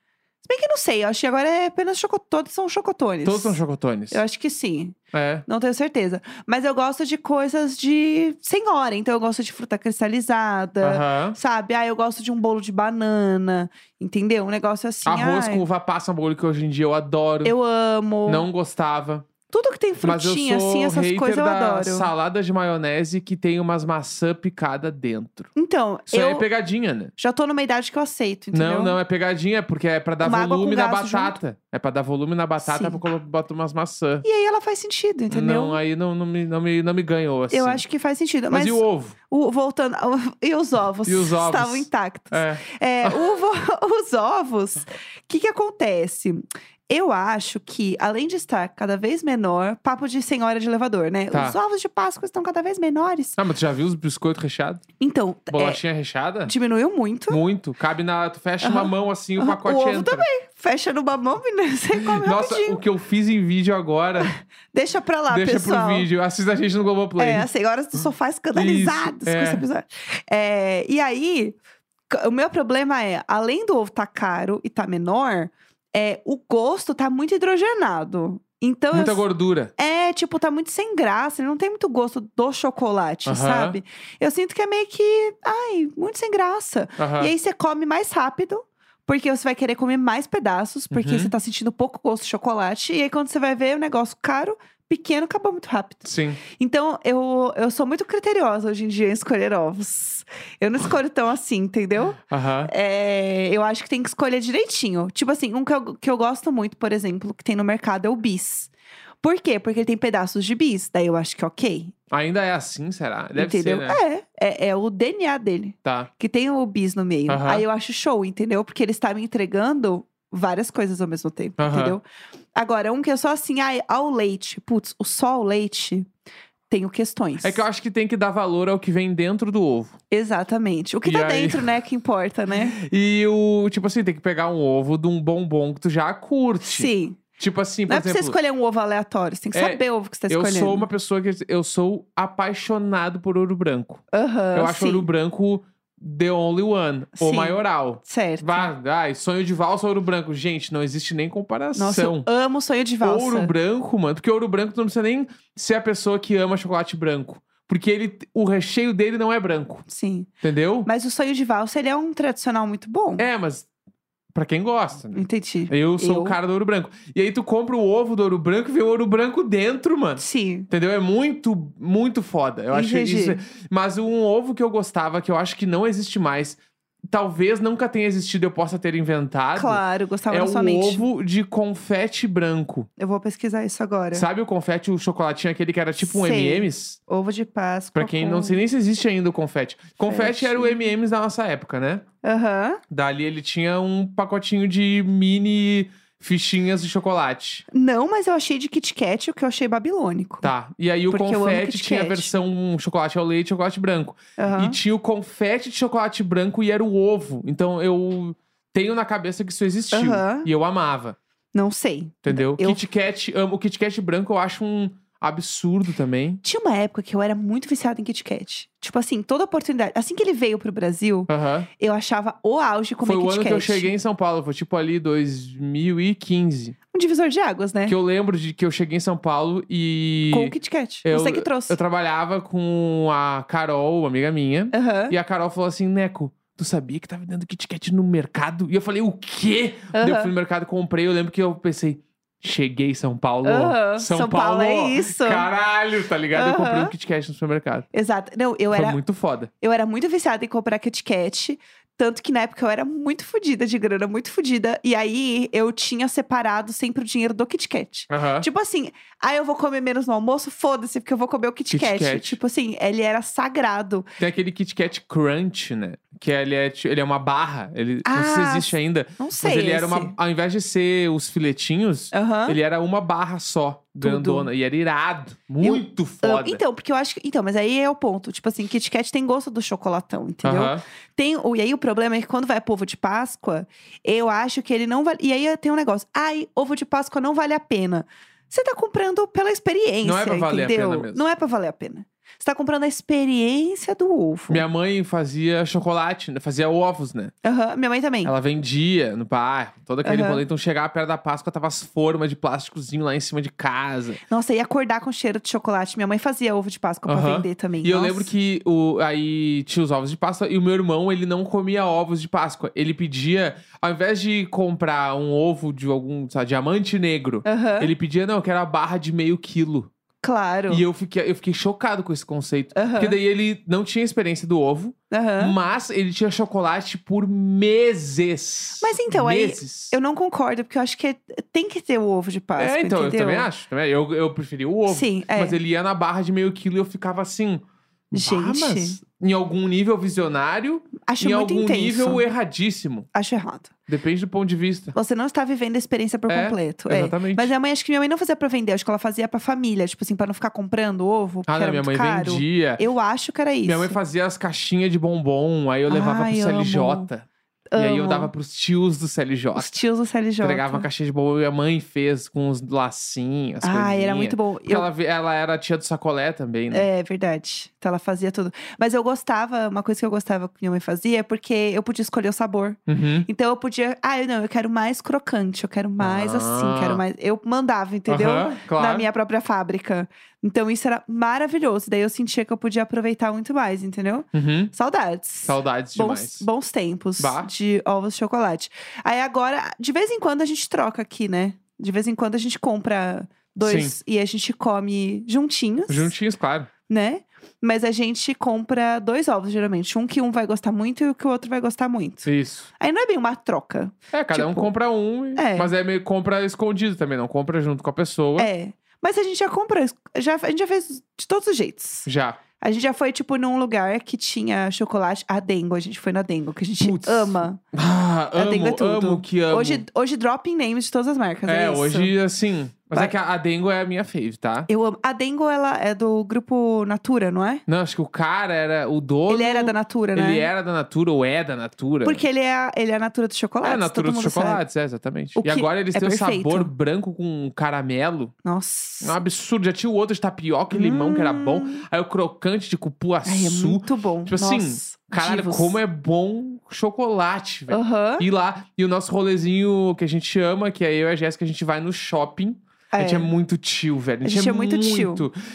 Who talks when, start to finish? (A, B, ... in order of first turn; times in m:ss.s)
0:00.4-0:15.7 A
0:03.2-0:04.2 B
0:05.1-0:05.4 B
0:10.8-0:11.4 B
0:15.1-0:17.5 B
0:17.4-0:18.5 A
0:18.3-0:19.3 B
0:19.5-0:22.1 A
0:20.0-0:25.5 B
0:25.6-0:26.5 A
0:26.1-0:27.1 B
0:27.2-0:29.0 A
0:28.5-0:34.2 B
0:30.2-0:31.4 A
0:32.6-0:33.0 A
0:34.2-0:35.8 A
0:35.3-0:37.8 B
0:37.5-0:53.4 A
0:38.5-0:39.2 B
0:41.1-0:43.2 B
0:51.3-0:51.6 B
0:53.4-0:54.8 B
0:55.0-0:55.8 A
0:55.5-0:56.5 B
0:56.4-0:57.4 A
0:57.3-1:00.3 B
0:58.6-1:02.8 A
1:02.0-1:04.3 B
1:04.2-1:06.1 A
1:05.3-1:07.5 B
1:07.2-1:11.6 A
1:08.5-1:09.6 B
1:12.1-1:19.2 A
1:18.9-1:19.7 B
1:19.8-1:48.7 A
1:23.2-1:23.8 B
1:27.0-1:27.3 B
1:30.9-1:31.3 B
1:36.0-1:36.4 B
1:42.3-1:42.7 B
1:49.2-1:51.9 A
1:52.1-1:54.0 B
1:53.4-2:02.0 A
1:57.3-1:57.6 B
2:01.6-2:02.0 B
2:02.6-2:06.1 A
2:06.7-2:07.6 A
2:07.4-2:10.0 B
2:10.1-2:12.8 A
2:11.0-2:11.7 B
2:12.7-2:18.4 B
2:16.6-2:17.2 A
2:17.9-2:20.9 A
2:19.5-2:24.0 B
2:24.1-2:25.1 A
2:24.5-2:32.3 B
2:27.2-2:28.7 A
2:31.8-2:33.5 A
2:33.0-2:39.8 B
2:39.9-2:40.3 A
2:40.4-2:40.9 B
2:40.8-2:43.3 A
2:43.2-2:43.7 B
2:44.3-2:56.6 B
2:45.2-2:46.4 A
2:50.2-2:50.7 A
2:52.7-2:53.4 A
2:57.1-3:02.9 B
2:59.6-3:01.0 A
3:03.0-3:04.3 A
3:04.1-3:07.0 B
3:06.0-3:08.6 A
3:08.0-3:12.0 B
3:10.0-3:10.9 A
3:12.2-3:12.8 A
3:12.9-3:17.6 B
3:17.7-3:20.5 A
3:20.4-3:31.2 B
3:21.1-3:22.3 A
3:24.4-3:24.8 A
3:29.9-3:30.5 A
3:31.5-3:32.8 A
3:32.2-3:36.4 B
3:36.4-3:43.9 A
3:41.3-3:41.7 B
3:43.0-3:46.8 B
3:46.9-3:48.0 A
3:47.9-3:50.5 B
3:50.3-3:51.8 A
3:51.0-4:07.9 B
3:54.7-3:55.2 A
3:59.9-4:00.3 A
4:03.4-4:05.5 A
4:06.3-4:06.9 A
4:07.9-4:09.0 A
4:08.7-4:09.5 B
4:09.6-4:24.1 A
4:18.1-4:18.5 B
4:21.7-4:22.4 B
4:24.2-4:36.6 B
4:28.0-4:30.2 A
4:32.1-4:32.6 A
4:34.0-4:34.5 A
4:35.6-4:54.6 A
4:40.4-4:40.8 B
4:50.0-4:51.2 B
4:54.5-4:57.3 B
4:57.4-4:58.3 A
4:58.2-5:04.2 B
5:00.0-5:00.4 A
5:04.3-5:08.3 A
5:07.1-5:19.9 B
5:17.4-5:17.9 A
5:20.2-5:20.8 A
5:20.7-5:30.0 B
5:22.7-5:23.2 A
5:25.1-5:25.6 A
5:28.8-5:33.5 A
5:32.6-5:43.1 B
5:34.9-5:35.6 A
5:38.1-5:39.0 A
5:41.1-5:42.2 A
5:43.1-5:43.7 A
5:43.9-5:45.0 B
5:45.0-5:54.0 A
5:46.3-5:47.5 B
5:51.5-5:52.8 B
5:53.6-5:59.8 B
5:55.9-5:57.1 A
5:57.7-5:58.3 A
5:59.6-6:00.9 A
6:00.4-6:06.9 B
6:03.6-6:04.9 A
6:06.7-6:36.1 A
6:12.9-6:13.3 B
6:16.0-6:17.0 B
6:18.1-6:19.1 B
6:24.3-6:24.7 B
6:25.5-6:26.5 B
6:27.2-6:27.5 B
6:33.6-6:34.0 B
6:35.9-6:36.7 B
6:36.9-6:44.7 A
6:42.3-6:42.7 B
6:44.1-6:48.5 B
6:45.4-6:45.7 A
6:48.4-6:52.1 A
6:52.1-6:52.4 B
6:52.6-6:57.6 A
6:56.8-6:59.8 B
6:58.4-7:02.2 A
7:01.5-7:04.7 B
7:04.7-7:07.6 A
7:07.7-7:12.2 B
7:09.3-7:10.5 A
7:12.0-7:14.6 A
7:13.6-7:18.3 B
7:15.4-7:16.7 A
7:18.4-7:19.2 A
7:19.0-7:35.4 B
7:20.7-7:21.8 A
7:23.2-7:25.8 A
7:27.7-7:28.3 A
7:32.9-7:33.3 A
7:34.2-7:35.3 A